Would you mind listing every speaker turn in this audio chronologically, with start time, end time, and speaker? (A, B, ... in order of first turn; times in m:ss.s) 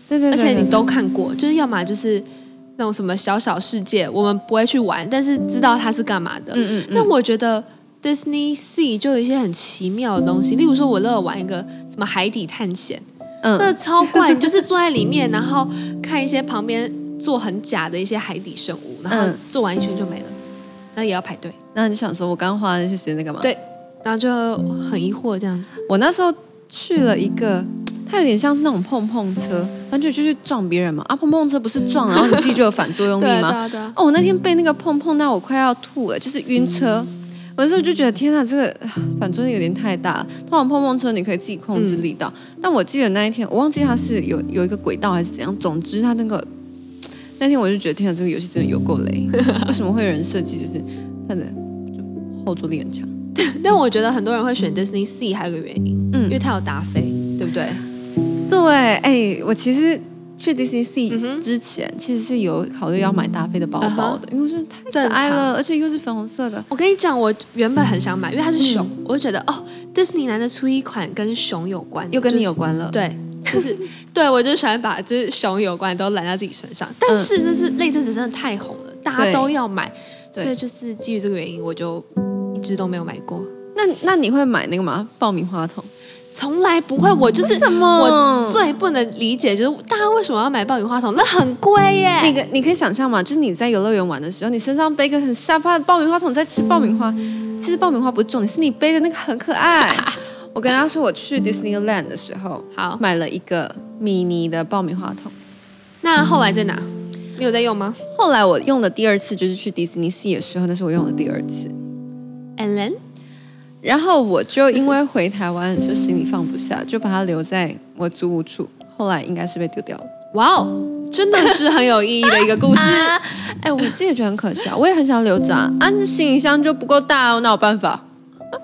0:00.1-0:00.9 A
0:00.3-0:02.3 B
0:02.8-0:13.0 B
0:06.5-0:07.1 A
0:13.4-0:14.5 A
0:13.6-0:20.4 B
0:19.1-0:19.4 A
0:21.0-0:21.6 B
0:21.8-0:23.5 A
0:23.4-0:25.7 B
0:25.9-0:46.5 A
0:32.1-0:34.0 B
0:41.8-0:42.0 B
0:47.4-0:53.1 A
0:53.4-0:57.8 B
0:56.1-0:56.4 A
0:58.5-1:06.7 A
1:01.1-1:01.5 B
1:03.8-1:04.2 B
1:04.9-1:05.5 B
1:06.7-1:23.5 B
1:08.6-1:08.9 A
1:12.1-1:13.7 A
1:19.2-1:19.5 A
1:23.8-1:25.9 A
1:26.3-1:32.4 B
1:27.4-1:28.6 A
1:32.2-1:45.3 A
1:39.8-1:40.2 B
1:42.7-1:43.0 B
1:46.0-1:48.0 B
1:48.2-1:51.7 A
1:52.6-1:53.0 B
1:53.8-2:00.1 A
2:00.3-2:03.2 B
2:02.7-2:08.0 A